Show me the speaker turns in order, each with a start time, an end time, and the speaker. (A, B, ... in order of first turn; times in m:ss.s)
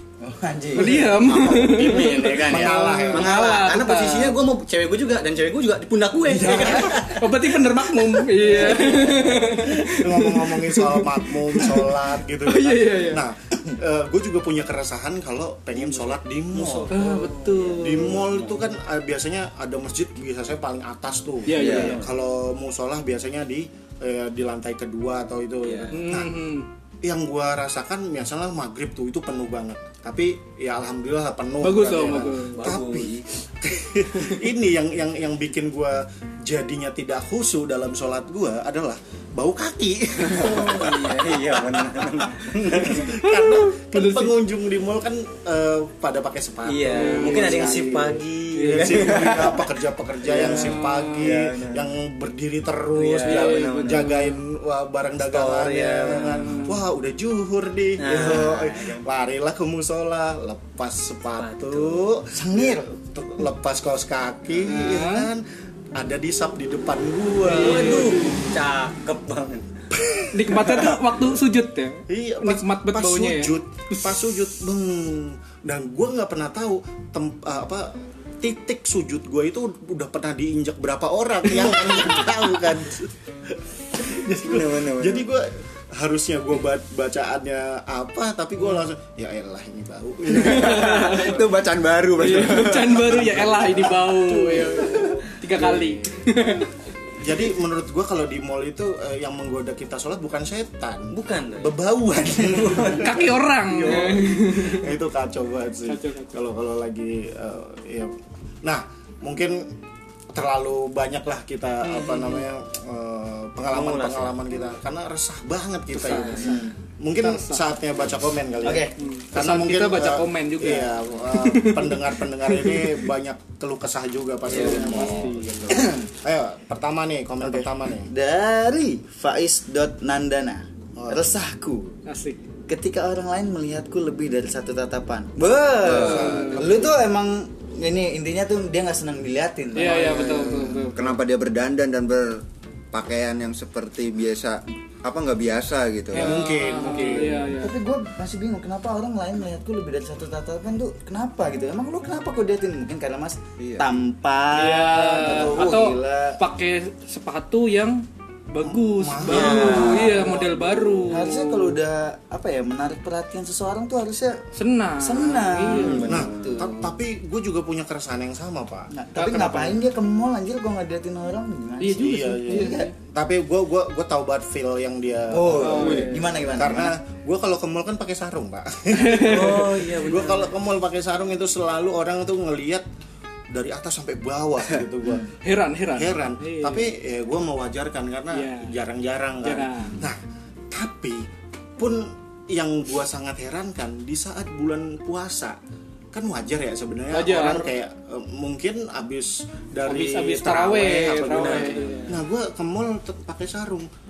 0:00.2-0:01.2 A
0:00.8-0:04.4 B
0:01.2-0:07.3 C
0:02.0-0:03.4 D
0:06.3-0:07.1 D
0:06.5-0:11.9 B
0:08.2-0:09.4 C
0:08.6-0:09.1 D
0:09.8-0:16.9 D
0:12.4-0:13.2 B
0:15.8-0:18.7 C
0:16.9-0:18.2 B
0:17.8-0:26.4 D
0:21.4-0:22.0 B
0:21.5-0:22.0 E
0:21.5-0:22.1 C
0:25.6-0:26.0 C
0:25.9-0:26.7 B
0:27.0-0:41.1 D
0:31.6-0:32.7 B
0:31.8-0:33.2 C
0:40.3-0:43.1 C
0:42.4-1:05.4 D
0:43.1-0:44.3 B
0:46.6-0:49.6 C
0:46.9-0:48.0 B
0:48.5-0:49.5 B
0:50.2-0:51.8 C
0:50.3-0:51.3 B
0:52.9-0:54.2 C
0:53.2-0:54.4 B
0:55.2-0:56.7 C
0:56.1-0:56.8 B
0:58.0-0:59.0 C
1:01.3-1:02.0 C
1:02.3-1:02.9 A
1:04.6-1:05.3 B
1:05.9-1:08.4 D
1:07.4-1:08.5 B
1:07.5-1:09.7 C
1:09.9-1:11.0 D
1:10.3-1:14.3 B
1:12.1-1:31.2 D
1:24.4-1:25.3 E
1:30.3-1:33.7 E
1:30.3-1:31.5 B
1:32.1-1:36.7 B
1:33.2-1:35.2 D
1:35.6-1:35.9 C
1:37.2-1:49.7 D
1:41.1-1:41.8 C
1:42.3-1:43.2 C
1:43.0-1:44.9 B
1:45.8-1:46.4 B
1:50.3-2:08.1 D
1:51.8-1:52.4 B
1:53.7-1:54.4 C
1:56.0-1:56.5 C
1:56.1-1:56.6 B
1:56.4-1:56.7 A
1:57.2-1:57.6 B
1:58.6-1:58.9 A
1:59.0-2:03.0 B
2:04.5-2:05.8 B
2:07.4-2:11.9 A
2:11.0-2:11.3 D
2:12.1-2:12.4 B
2:12.7-2:20.8 A
2:15.8-2:16.9 D
2:15.9-2:16.8 B
2:16.0-2:16.4 E
2:19.7-2:21.1 B
2:19.8-2:20.6 D
2:20.9-2:26.4 E
2:26.1-2:27.4 D
2:26.1-2:27.7 B
2:27.0-2:36.4 A
2:33.6-2:33.9 E
2:34.5-2:41.8 B
2:38.6-2:41.3 D
2:39.3-2:40.1 C
2:39.4-2:40.3 A
2:41.1-2:44.4 A
2:44.6-2:46.2 B
2:45.0-2:46.8 A
2:45.9-2:46.5 E
2:46.0-2:48.9 D
2:48.9-2:52.9 A
2:49.2-2:49.7 B
2:51.8-2:52.9 B
2:52.0-3:02.8 D
2:55.3-2:57.0 A
2:55.6-2:56.4 B
2:58.9-2:59.7 B
2:59.1-3:00.5 C
3:03.5-3:05.3 D
3:05.4-3:06.9 B
3:05.9-3:10.2 D
3:08.3-3:08.7 B
3:09.4-3:10.0 B
3:10.7-3:11.3 D
3:11.8-3:15.6 D
3:16.1-3:23.9 D
3:17.1-3:17.7 B
3:19.8-3:22.1 B
3:21.3-3:22.2 C